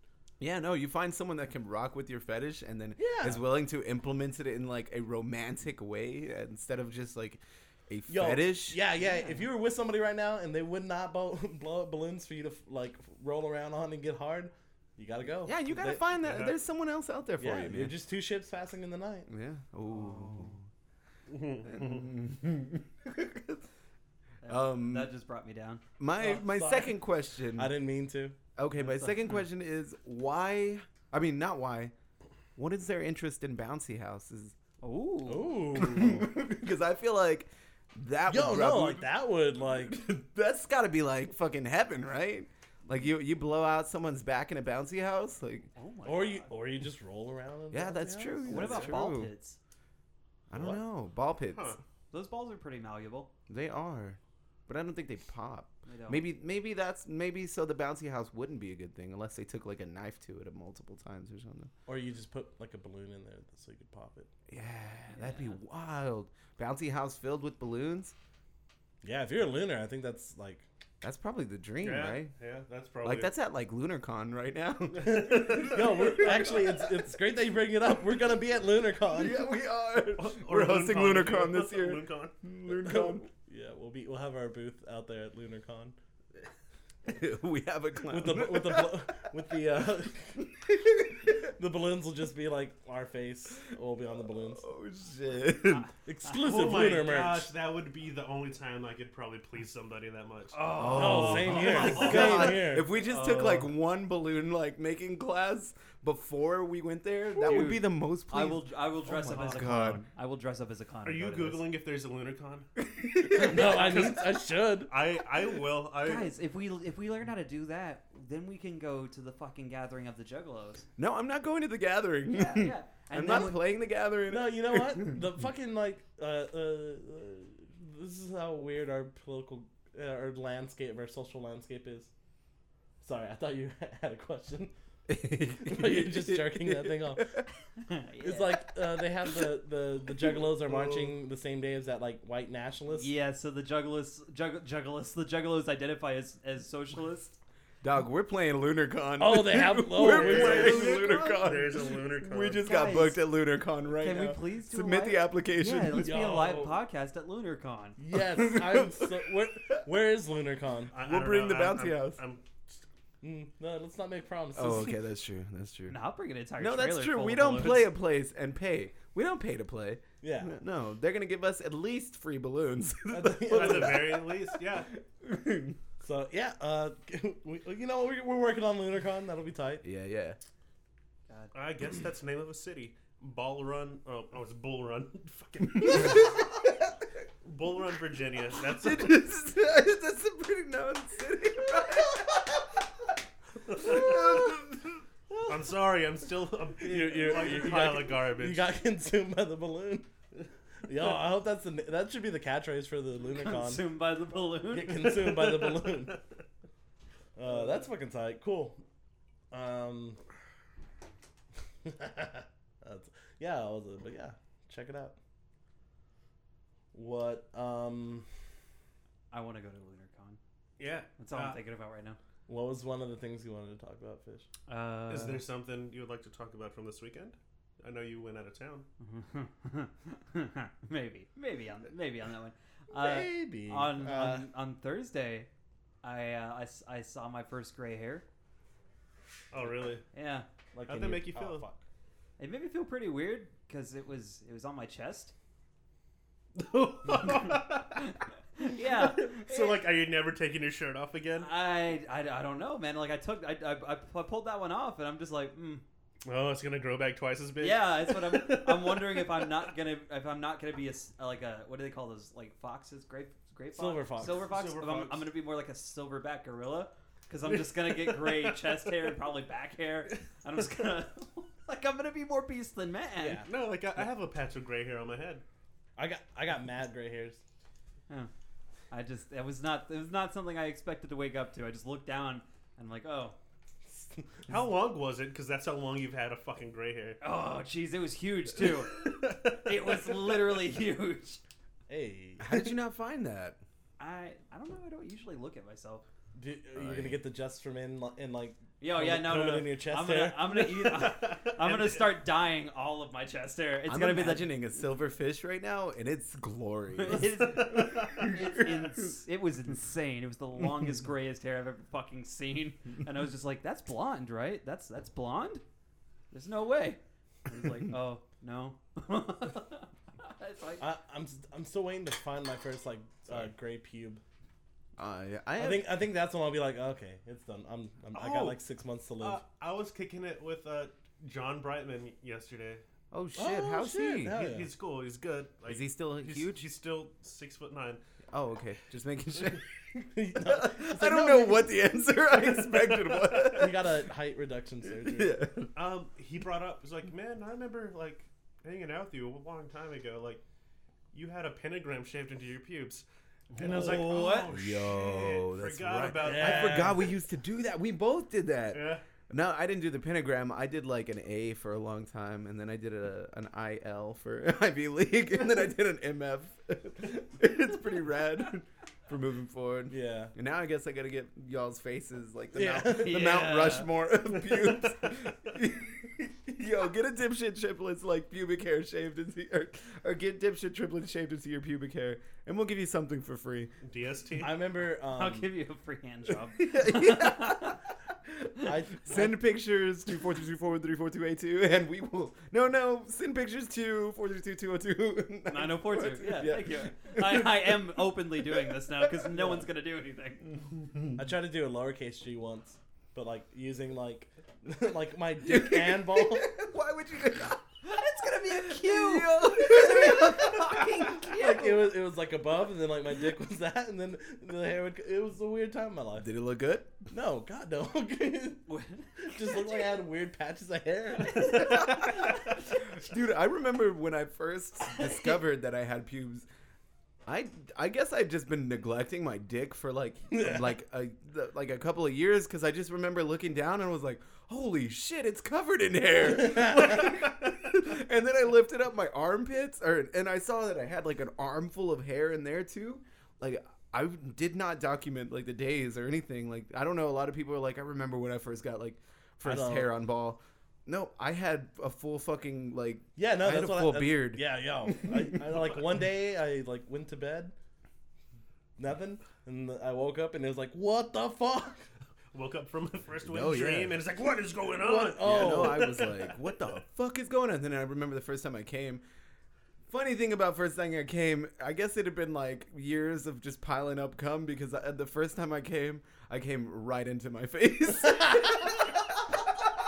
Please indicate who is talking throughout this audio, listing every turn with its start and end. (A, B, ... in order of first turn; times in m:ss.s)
0:00.4-0:08.8 A
0:03.0-0:03.4 B
0:08.1-0:16.0 B
0:09.0-0:09.4 C
0:15.4-0:18.0 A
0:16.2-0:16.6 D
0:17.4-0:19.3 B
0:19.3-0:20.6 A
0:20.0-0:20.5 C
0:21.3-0:22.1 D
0:21.6-0:23.6 A
0:24.4-0:25.8 C
0:24.4-0:25.1 A
0:26.0-0:27.7 A
0:26.2-0:27.0 B
0:27.5-0:28.4 B
0:28.6-0:31.9 A
0:28.8-0:29.4 C
0:32.6-0:34.5 A
0:34.8-0:35.8 C
0:35.3-0:36.3 B
0:35.8-0:39.1 A
0:38.3-0:40.0 B
0:39.8-0:45.7 A
0:45.8-0:46.5 C
0:46.0-0:49.0 B
0:47.7-0:49.3 A
0:48.5-0:49.6 C
0:50.5-0:51.8 A
0:50.5-0:50.8 B
0:51.5-0:51.8 D
0:52.1-0:53.3 C
0:53.5-1:01.7 A
0:55.9-0:56.2 C
1:01.9-1:04.3 B
1:04.5-1:08.1 A
1:05.1-1:05.6 C
1:09.0-1:10.6 B
1:11.0-1:12.3 A
1:11.8-1:13.3 D
1:13.0-1:16.7 A
1:14.9-1:16.4 D
1:15.0-1:19.4 B
1:19.1-1:23.3 A
1:20.2-1:22.3 D
1:22.8-1:26.0 B
1:27.0-1:29.0 A
1:28.1-1:30.4 B
1:30.4-1:31.3 A
1:31.4-1:34.7 B
1:34.4-1:35.9 A
1:36.1-1:37.5 B
1:36.3-1:40.8 D
1:40.5-1:42.7 C
1:40.7-1:50.0 A
1:40.9-1:42.9 B
1:41.4-1:42.6 D
1:43.1-1:43.6 D
1:43.2-1:43.5 C
1:47.4-1:51.6 C
1:51.0-1:52.7 D
1:52.8-1:54.0 A
1:53.2-1:54.9 B
1:53.4-1:56.3 D
1:56.0-2:00.8 C
2:01.0-2:05.2 A
2:02.3-2:03.6 C
2:04.3-2:12.1 B
2:13.0-2:14.7 B
2:15.1-2:17.5 A
2:15.6-2:17.3 B
2:17.8-2:18.6 C
2:18.2-2:23.1 B
2:22.9-2:27.4 C
2:27.8-2:36.4 A
2:29.2-2:31.0 B
2:30.0-2:32.7 D
2:30.5-2:31.4 C
2:32.6-2:33.2 C
2:34.0-2:38.0 C
2:35.9-2:36.8 B
2:38.0-2:41.0 B
2:38.4-2:39.1 A
2:40.9-2:42.4 D
2:41.0-2:42.2 A
2:43.2-2:45.0 B
2:44.6-2:46.0 A
2:45.9-2:47.9 C
2:46.6-2:54.4 A
2:50.2-2:50.5 B
2:53.1-2:54.2 B
2:53.5-2:54.9 D
2:55.2-2:55.8 A
2:56.0-2:59.8 B
2:59.8-3:00.4 A
3:01.3-3:01.5 C
3:01.5-3:06.5 D
3:07.4-3:09.2 D
3:08.8-3:12.5 A
3:13.7-3:14.8 A
3:15.4-3:18.7 D
3:16.8-3:20.1 B
3:20.9-3:23.9 B
3:23.4-3:25.2 C
3:24.7-3:26.2 B
3:25.2-3:26.2 D
3:27.4-3:28.8 B
3:29.5-3:30.2 B
3:31.8-3:35.2 B
3:36.9-3:38.3 B
3:39.3-3:40.4 C
3:40.8-3:41.6 D
3:41.2-3:42.2 C
3:42.5-3:44.5 B
3:44.7-3:45.4 C
3:45.1-3:48.9 D
3:49.0-3:55.5 C
3:52.9-3:54.4 B
3:56.0-3:58.2 C
3:59.5-4:00.0 D
4:00.1-4:00.5 C
4:00.7-4:01.8 B
4:00.9-4:01.6 D
4:02.4-4:05.3 C
4:06.6-4:08.1 D
4:08.0-4:09.8 C
4:08.8-4:11.5 D
4:11.4-4:15.8 C
4:16.2-4:19.6 D
4:17.6-4:33.5 C
4:23.7-4:24.5 B
4:24.2-4:25.3 D
4:27.5-4:28.9 D
4:33.2-4:33.5 B
4:33.4-4:35.4 D
4:36.0-4:37.4 B
4:38.9-4:43.4 C
4:43.9-4:44.5 B
4:44.5-4:47.2 D
4:47.2-4:51.4 C
4:48.6-4:50.3 D
4:51.9-4:52.7 B
4:52.4-4:53.6 A
4:54.0-4:56.0 C
4:56.4-5:00.6 B
4:56.8-4:57.2 A
4:58.8-5:04.5 C
5:00.6-5:02.1 D
5:03.9-5:09.1 A
5:07.0-5:15.6 C
5:07.6-5:08.3 D
5:16.3-5:20.8 C
5:20.8-5:24.2 B
5:25.0-5:25.9 A
5:25.6-5:29.4 B
5:28.1-5:28.6 D
5:29.2-5:32.8 D
5:33.1-5:34.4 A
5:33.4-5:34.7 B
5:34.3-5:38.0 D
5:35.7-5:36.6 A
5:38.3-5:39.7 A
5:40.0-5:41.7 B
5:40.4-5:43.9 A
5:42.8-5:43.2 D
5:43.4-5:45.4 B
5:45.0-5:45.7 A
5:45.8-5:50.4 D
5:51.1-5:57.1 D
5:53.6-5:54.5 C
5:54.5-6:23.7 A
5:56.2-5:57.1 B
5:58.7-5:59.0 D
6:09.9-6:10.3 B
6:12.5-6:13.3 B
6:12.8-6:13.9 C
6:14.5-6:15.1 D
6:23.8-6:24.6 D
6:24.4-6:25.5 B
6:25.2-6:27.8 C
6:26.6-6:27.8 A
6:28.6-6:29.4 B
6:29.0-6:37.8 A
6:35.5-6:40.5 C
6:39.3-6:39.7 B
6:41.2-6:46.5 B
6:45.4-6:47.8 A
6:47.8-6:51.9 C
6:48.4-6:51.3 A
6:51.3-6:56.3 B
6:56.2-6:57.0 A
6:57.1-6:58.7 B
6:58.7-7:00.0 C
6:59.2-7:01.8 B
7:01.4-7:06.5 A
7:01.4-7:02.2 C
7:07.3-7:35.6 A
7:10.3-7:10.7 B
7:29.4-7:29.9 B
7:33.2-7:37.5 B
7:38.8-7:41.9 B
7:42.3-7:46.5 D
7:43.2-7:44.0 A
7:44.8-7:45.9 B
7:45.2-7:49.0 A
7:49.9-7:59.4 A